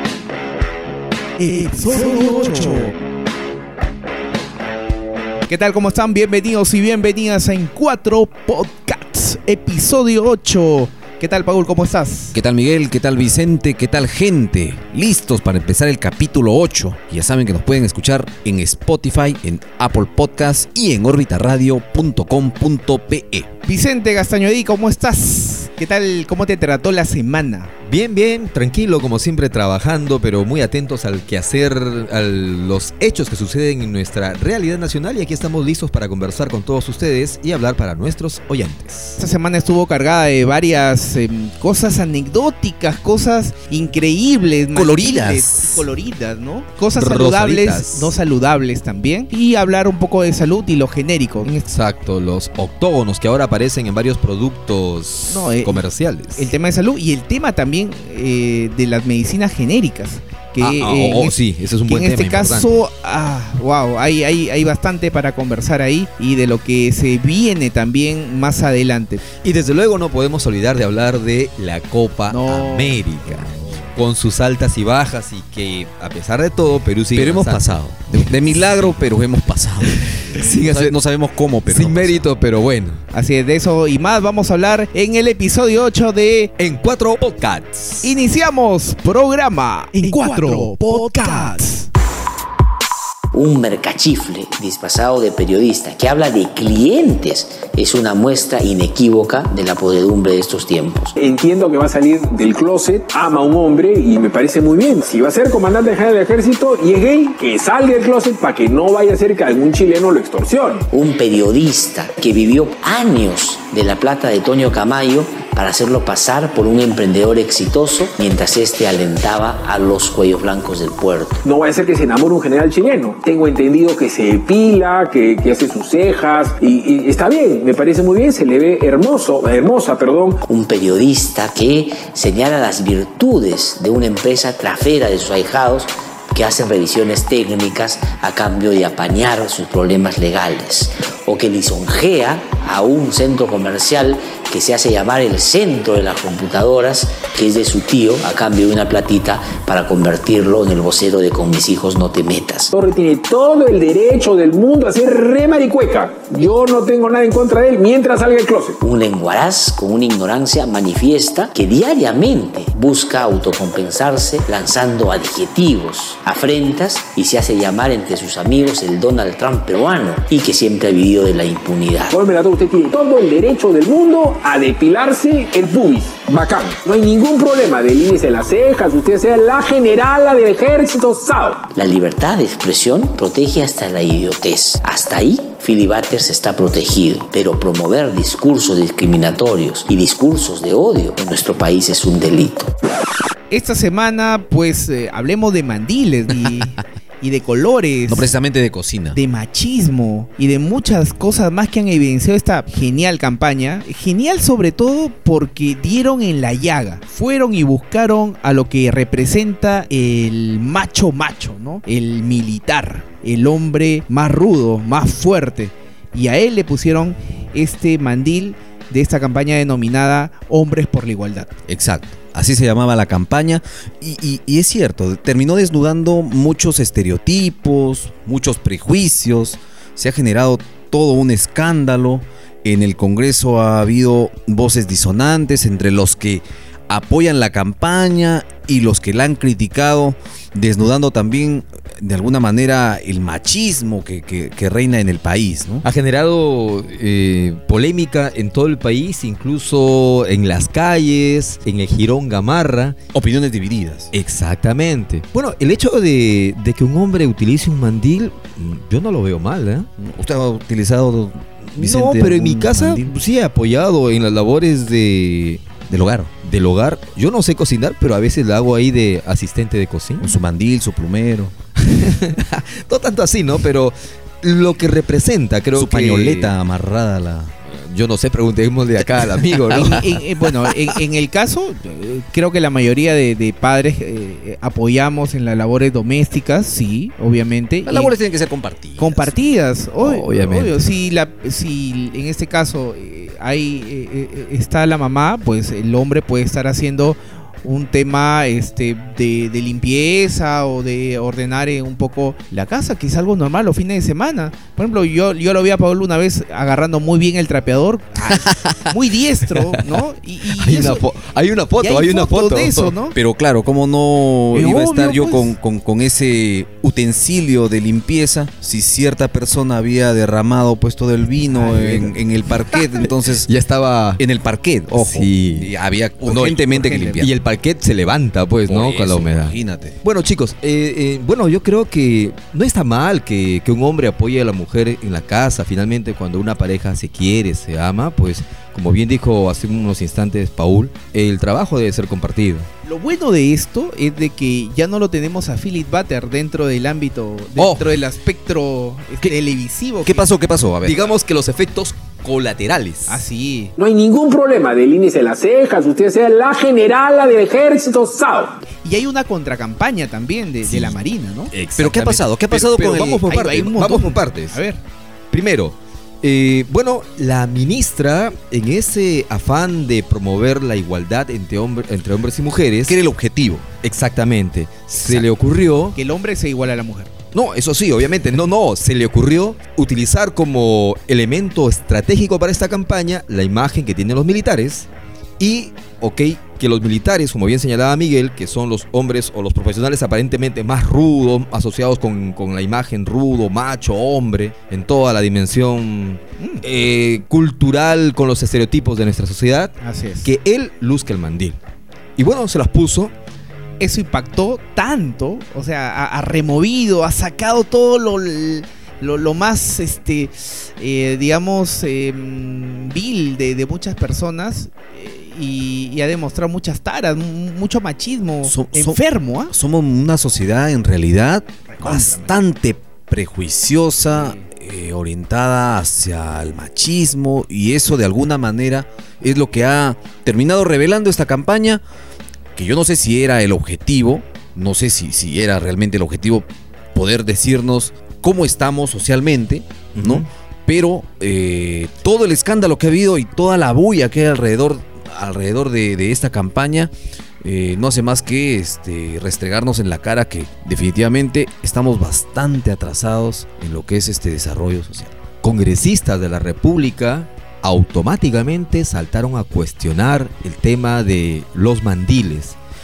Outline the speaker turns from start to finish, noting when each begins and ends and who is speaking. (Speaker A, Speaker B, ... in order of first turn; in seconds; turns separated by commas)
Speaker A: 1.4-2.9, Speaker A: 5.5-12.3, Speaker B: 12.3-23.5, Speaker A: 23.6-27.7, Speaker C: 27.9-39.2, Speaker A: 39.2-51.6, Speaker B: 44.7-45.9, Speaker C: 47.0-48.1, Speaker C: 51.7-56.5, Speaker A: 55.3-55.8, Speaker A: 56.3-61.3, Speaker C: 60.6-62.8, Speaker A: 61.9-69.2, Speaker C: 69.4-78.9, Speaker A: 72.3-73.0, Speaker B: 77.1-82.2, Speaker C: 79.9-81.0, Speaker C: 81.7-83.0, Speaker A: 83.1-86.5, Speaker C: 86.6-88.1, Speaker A: 88.0-91.9, Speaker D: 93.3-101.2, Speaker E: 101.2-110.8, Speaker D: 110.9-121.4, Speaker E: 121.4-130.4, Speaker D: 130.4-152.7, Speaker E: 152.7-158.8, Speaker D: 158.8-172.2, Speaker E: 172.1-181.7, Speaker D: 181.7-192.7, Speaker A: 193.5-198.3, Speaker B: 198.1-199.2, Speaker A: 199.1-221.5, Speaker B: 221.7-245.8, Speaker C: 245.8-253.0, Speaker B: 253.1-254.1, Speaker C: 254.1-259.9, Speaker B: 260.0-263.1, Speaker C: 261.8-265.6, Speaker B: 265.9-266.3, Speaker C: 266.4-270.3, Speaker B: 270.2-271.5, Speaker C: 271.8-276.5, Speaker B: 275.7-277.5, Speaker C: 277.8-280.1, Speaker B: 279.4-279.9, Speaker A: 279.7-288.1, Speaker B: 287.9-289.4, Speaker A: 289.0-311.0, Speaker C: 290.0-290.9, Speaker C: 309.6-309.9, Speaker C: 310.6-312.9, Speaker A: 311.8-313.1, Speaker B: 313.1-323.5, Speaker A: 314.5-315.5, Speaker C: 321.6-322.1, Speaker C: 323.5-324.2, Speaker B: 324.2-327.3, Speaker C: 324.9-325.7, Speaker C: 326.3-326.6, Speaker A: 326.7-327.2, Speaker C: 327.2-342.7, Speaker B: 328.7-330.0, Speaker A: 342.8-350.3, Speaker B: 350.0-351.1, Speaker C: 350.8-353.2, Speaker A: 353.1-353.7, Speaker E: 353.8-358.5, Speaker A: 358.8-361.5, Speaker C: 360.7-360.9, Speaker C: 361.5-364.6, Speaker B: 361.8-363.3, Speaker A: 363.2-364.8, Speaker C: 365.3-372.9, Speaker B: 372.9-373.7, Speaker C: 373.8-375.9, Speaker B: 374.9-375.3, Speaker A: 375.9-377.1, Speaker C: 377.3-384.9, Speaker C: 385.4-401.6, Speaker A: 396.4-396.6, Speaker A: 399.8-400.3, Speaker C: 402.2-403.1, Speaker A: 403.8-419.5, Speaker B: 418.4-431.8, Speaker A: 421.7-422.3, Speaker A: 424.1-424.4, Speaker B: 432.5-455.1, Speaker C: 439.9-440.2, Speaker C: 455.4-462.6